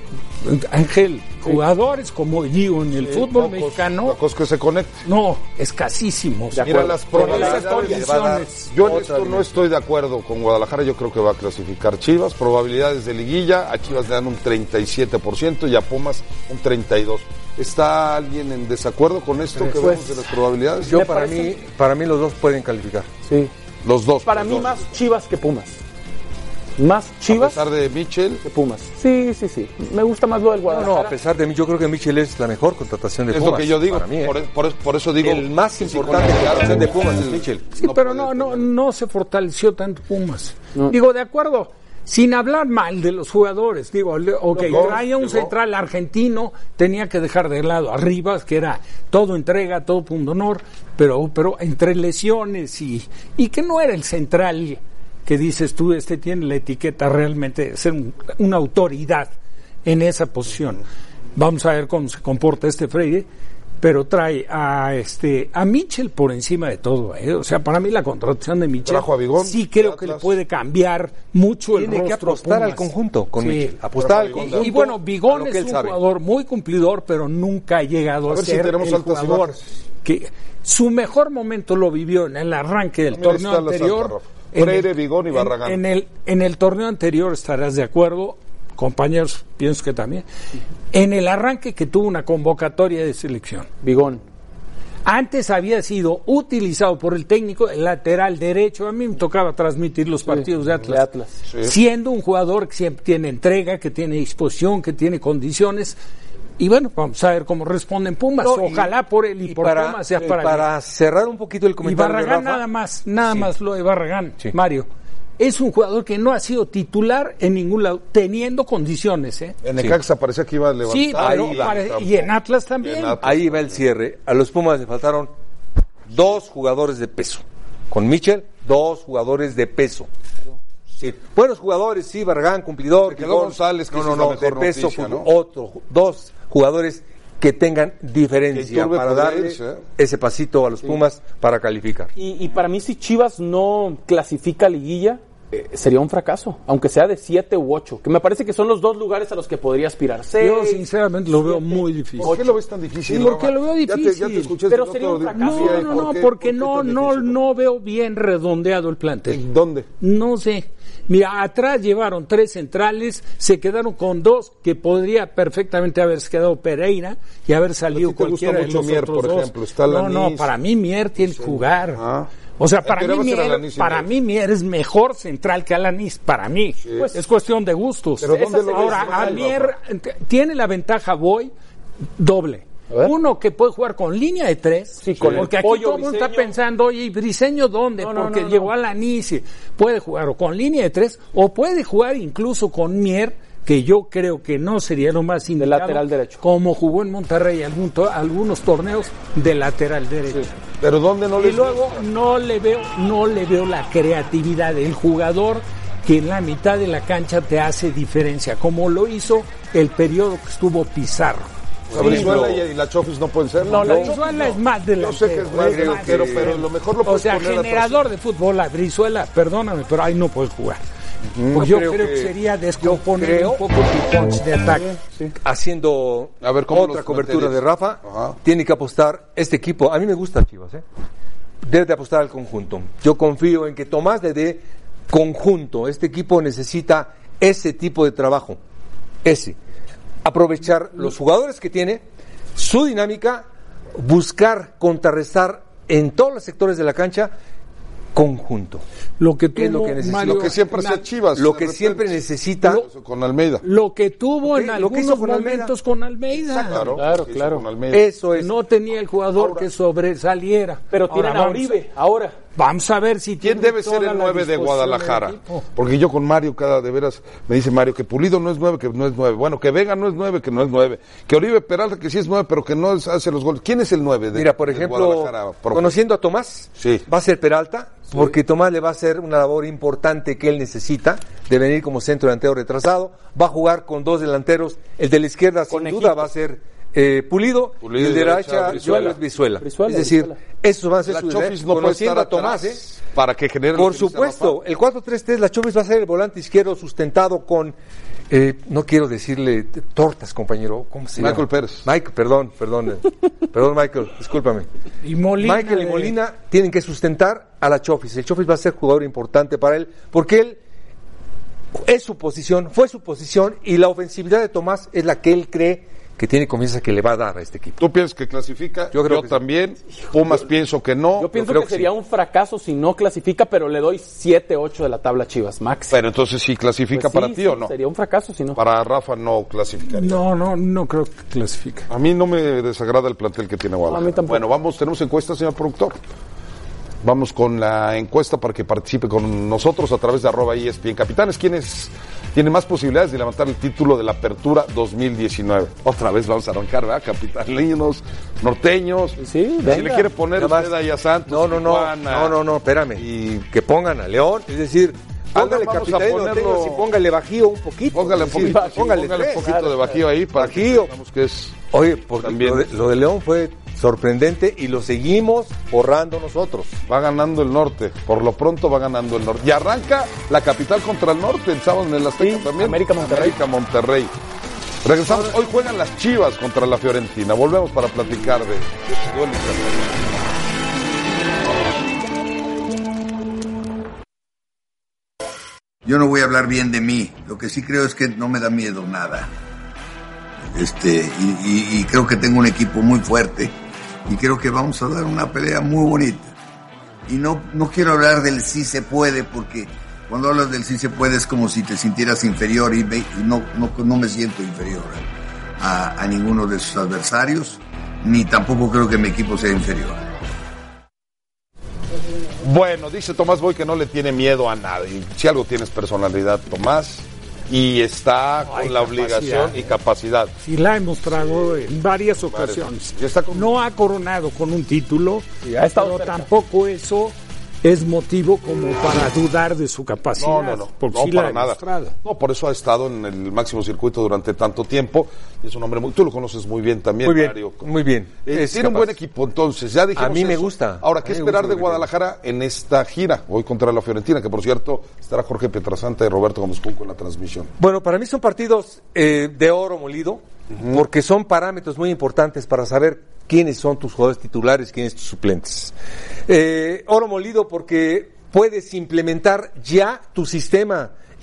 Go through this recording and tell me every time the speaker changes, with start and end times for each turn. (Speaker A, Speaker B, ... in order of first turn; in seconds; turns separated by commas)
Speaker A: 0.4-4.2, Speaker B: 3.0-5.0, Speaker A: 5.0-8.7, Speaker C: 6.5-8.0, Speaker B: 6.6-21.1, Speaker D: 8.8-9.5, Speaker C: 19.8-20.2, Speaker C: 20.8-21.6, Speaker D: 20.9-23.1, Speaker C: 23.3-23.5, Speaker B: 23.8-24.9, Speaker C: 24.2-25.8, Speaker C: 26.8-27.6, Speaker B: 27.3-28.4, Speaker C: 28.4-31.1, Speaker D: 30.7-34.4, Speaker B: 33.3-38.7, Speaker D: 35.2-37.6, Speaker A: 37.8-59.3, Speaker C: 44.5-45.0, Speaker B: 44.6-45.5, Speaker A: 59.9-60.8, Speaker A: 61.4-63.3, Speaker A: 63.8-73.8, Speaker B: 68.8-70.3, Speaker D: 71.8-76.0, Speaker B: 74.0-74.8, Speaker A: 74.4-90.2, Speaker B: 78.3-79.7, Speaker B: 83.1-85.8, Speaker A: 90.9-93.7, Speaker C: 93.8-94.2, Speaker A: 95.0-101.1, Speaker C: 100.3-101.3, Speaker B: 101.5-101.7, Speaker A: 101.6-106.0, Speaker A: 106.6-110.7, Speaker D: 108.5-108.9, Speaker D: 109.5-112.7, Speaker A: 111.8-114.9, Speaker A: 115.4-119.5, Speaker B: 119.6-122.3, Speaker A: 120.9-123.2, Speaker D: 121.2-121.8, Speaker B: 122.8-123.7, Speaker D: 123.2-125.3, Speaker D: 126.1-130.1, Speaker D: 131.0-142.1, Speaker B: 133.0-135.3, Speaker B: 138.5-139.8, Speaker C: 142.2-152.5, Speaker A: 150.4-152.4, Speaker B: 152.2-157.4, Speaker A: 153.1-154.6, Speaker C: 154.7-156.1, Speaker A: 155.3-159.4, Speaker B: 159.3-159.9, Speaker A: 160.0-172.0, Speaker B: 167.9-170.5, Speaker B: 171.2-172.3, Speaker A: 172.6-181.5, Speaker B: 172.8-174.1, Speaker B: 176.8-177.1, Speaker C: 176.9-177.2, Speaker B: 178.2-179.7, Speaker C: 178.3-179.5, Speaker A: 182.2-200.5, Speaker C: 185.0-186.5, Speaker B: 185.1-185.5, Speaker C: 188.0-188.7, Speaker C: 195.6-196.4, Speaker B: 200.8-202.1, Speaker A: 201.4-211.5, Speaker B: 211.9-214.2, Speaker D: 211.9-212.6, Speaker C: 212.0-212.4, Speaker C: 213.6-214.2, Speaker A: 213.8-220.8, Speaker B: 215.0-218.0, Speaker D: 215.6-216.5, Speaker B: 221.3-221.7, Speaker A: 221.5-224.9, Speaker D: 221.6-223.7, Speaker C: 225.0-225.3, Speaker D: 225.4-230.8, Speaker B: 226.4-228.4, Speaker D: 231.6-238.6, Speaker D: 239.2-239.6, Speaker D: 240.2-242.0, Speaker D: 242.6-247.3, Speaker D: 248.2-248.8, Speaker A: 249.2-251.0, Speaker D: 249.6-250.6, Speaker B: 250.2-253.6, Speaker D: 251.3-252.8, Speaker A: 253.6-257.0, Speaker D: 254.5-255.7, Speaker B: 256.3-258.1, Speaker C: 257.0-257.6, Speaker D: 257.9-258.5, Speaker A: 258.4-261.8, Speaker B: 259.4-259.7, Speaker C: 260.9-262.4, Speaker A: 262.6-265.6, Speaker B: 263.4-276.0, Speaker D: 274.3-293.0, Speaker B: 276.8-277.0, Speaker C: 285.7-286.3, Speaker B: 287.8-289.2, Speaker C: 288.7-290.4, Speaker B: 291.1-294.6, Speaker D: 293.7-297.8, Speaker D: 298.3-304.7, Speaker B: 301.2-301.9, Speaker A: 305.0-306.1, Speaker D: 305.4-310.6, Speaker D: 311.8-317.8, Speaker B: 317.8-321.5, Speaker D: 318.9-319.4, Speaker C: 321.2-326.0, Speaker D: 321.4-321.9, Speaker B: 325.9-327.7, Speaker C: 326.9-328.6, Speaker B: 328.6-330.2, Speaker A: 329.9-331.9, Speaker B: 331.9-336.0, Speaker C: 333.9-334.4, Speaker B: 337.0-352.4, Speaker C: 349.2-350.1, Speaker D: 350.4-350.7, Speaker D: 351.3-359.5, Speaker B: 353.0-353.4, Speaker B: 355.4-356.9, Speaker B: 357.9-361.6, Speaker C: 358.2-360.0, Speaker D: 360.4-360.9, Speaker D: 361.7-366.8, Speaker B: 362.2-362.7, Speaker B: 366.9-374.1, Speaker C: 372.2-373.4, Speaker B: 374.8-379.9, Speaker E: 385.9-389.3, Speaker E: 390.5-393.5, Speaker E: 394.1-396.3, Speaker E: 397.1-405.0, Speaker E: 405.6-410.0, Speaker B: 412.4-420.3, Speaker A: 418.4-419.7, Speaker A: 420.4-425.2, Speaker B: 421.1-421.6, Speaker B: 422.2-423.5, Speaker C: 425.4-426.3, Speaker A: 425.8-432.0, Speaker B: 430.2-437.7, Speaker D: 437.1-439.0, Speaker B: 438.3-447.5, Speaker D: 440.0-441.9, Speaker D: 447.6-455.7, Speaker D: 456.3-460.9